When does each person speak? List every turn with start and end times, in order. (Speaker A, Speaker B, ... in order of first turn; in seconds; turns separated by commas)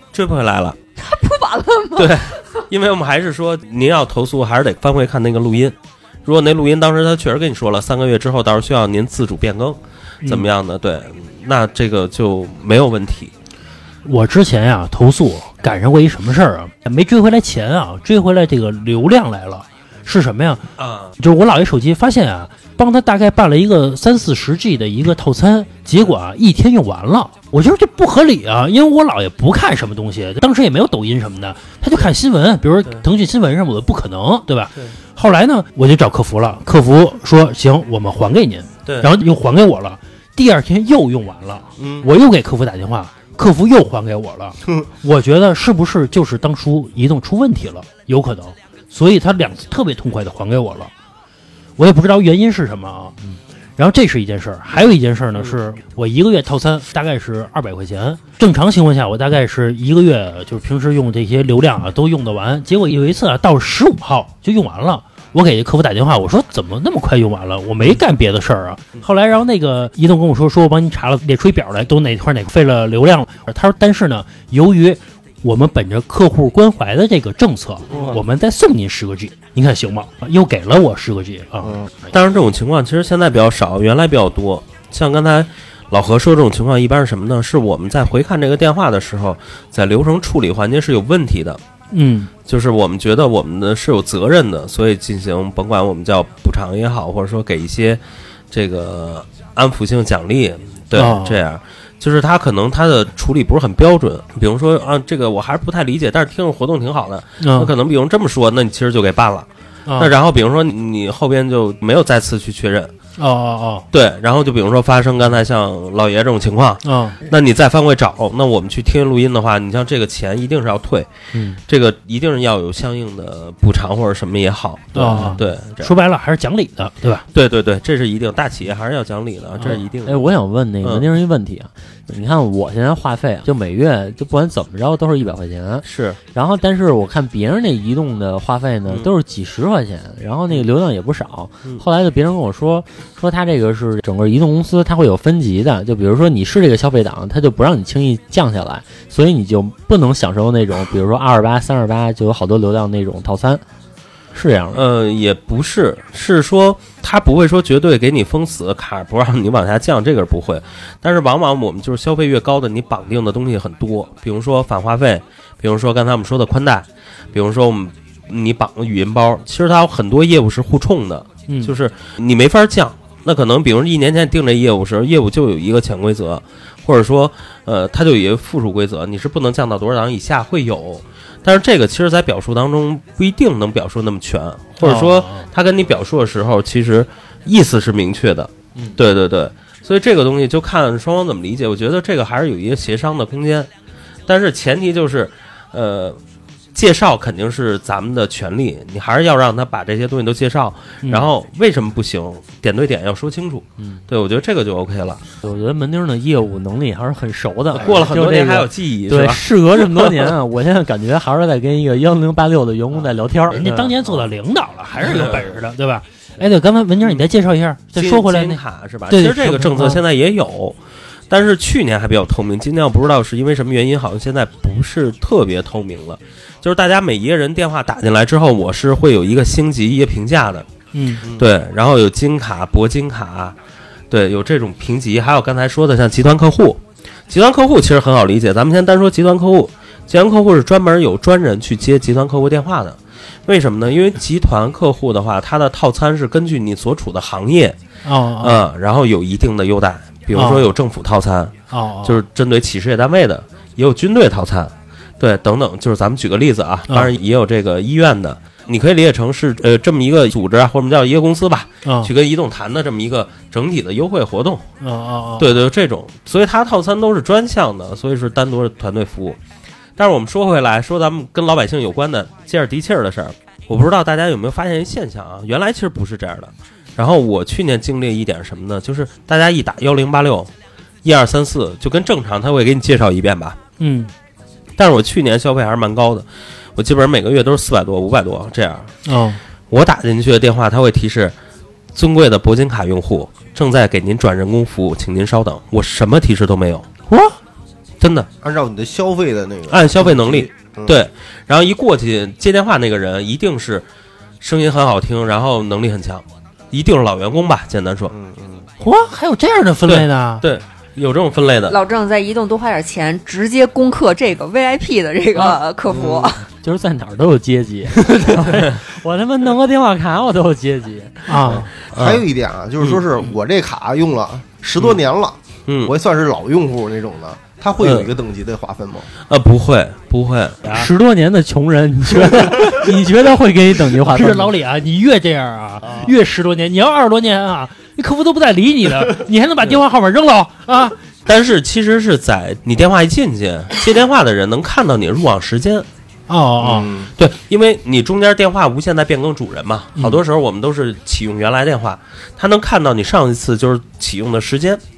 Speaker A: 0.1-0.8, Speaker B: 1.0-2.6, Speaker A: 2.0-13.3, Speaker C: 10.2-10.5, Speaker C: 14.1-20.6, Speaker A: 20.8-21.2, Speaker C: 21.2-50.9, Speaker C: 51.8-53.2, Speaker C: 53.8-81.8, Speaker A: 82.1-91.6, Speaker C: 91.9-92.3, Speaker A: 92.5-112.9, Speaker C: 101.0-101.4, Speaker C: 107.4-107.7, Speaker C: 109.9-110.1, Speaker C: 113.2-113.9, Speaker A: 113.9-121.1, Speaker C: 116.8-117.2, Speaker A: 121.7-125.9, Speaker C: 125.0-127.2, Speaker D: 125.0-125.4, Speaker A: 127.3-130.3, Speaker D: 130.0-153.6, Speaker A: 130.8-131.1, Speaker A: 135.8-136.2, Speaker A: 138.9-139.1, Speaker D: 154.3-154.8, Speaker A: 154.7-193.7, Speaker C: 171.5-171.8, Speaker C: 184.8-185.5, Speaker A: 194.3-196.2, Speaker A: 196.7-205.2, Speaker D: 205.4-214.0, Speaker A: 207.8-210.3, Speaker C: 213.5-220.0, Speaker A: 215.0-215.4, Speaker A: 218.0-220.8, Speaker A: 221.3-230.7, Speaker C: 230.9-231.2, Speaker A: 231.2-233.6, Speaker A: 234.1-247.8, Speaker C: 248.0-248.6, Speaker A: 248.4-264.6, Speaker C: 250.3-250.7, Speaker C: 251.7-252.2, Speaker C: 261.9-262.1, Speaker C: 264.8-265.6, Speaker A: 265.4-269.4, Speaker A: 270.0-280.5, Speaker A: 281.0-283.6, Speaker C: 283.8-284.1, Speaker A: 284.8-288.9, Speaker C: 289.1-289.4, Speaker A: 289.7-291.4, Speaker A: 291.9-296.9, Speaker A: 298.0-298.3, Speaker E: 298.4-301.0, Speaker A: 299.7-303.9, Speaker A: 304.4-308.1, Speaker E: 308.1-308.7, Speaker C: 308.8-310.4, Speaker A: 309.9-311.8, Speaker B: 311.7-316.5, Speaker A: 315.9-316.2, Speaker D: 316.5-321.6, Speaker C: 321.3-321.7, Speaker E: 321.9-329.1, Speaker A: 321.9-322.2, Speaker A: 322.8-323.1, Speaker A: 325.7-325.9, Speaker A: 327.8-328.1, Speaker A: 329.2-330.7, Speaker D: 330.7-334.5, Speaker C: 334.0-340.9, Speaker A: 341.2-345.9, Speaker C: 346.3-346.9, Speaker E: 346.6-347.1, Speaker A: 347.2-354.8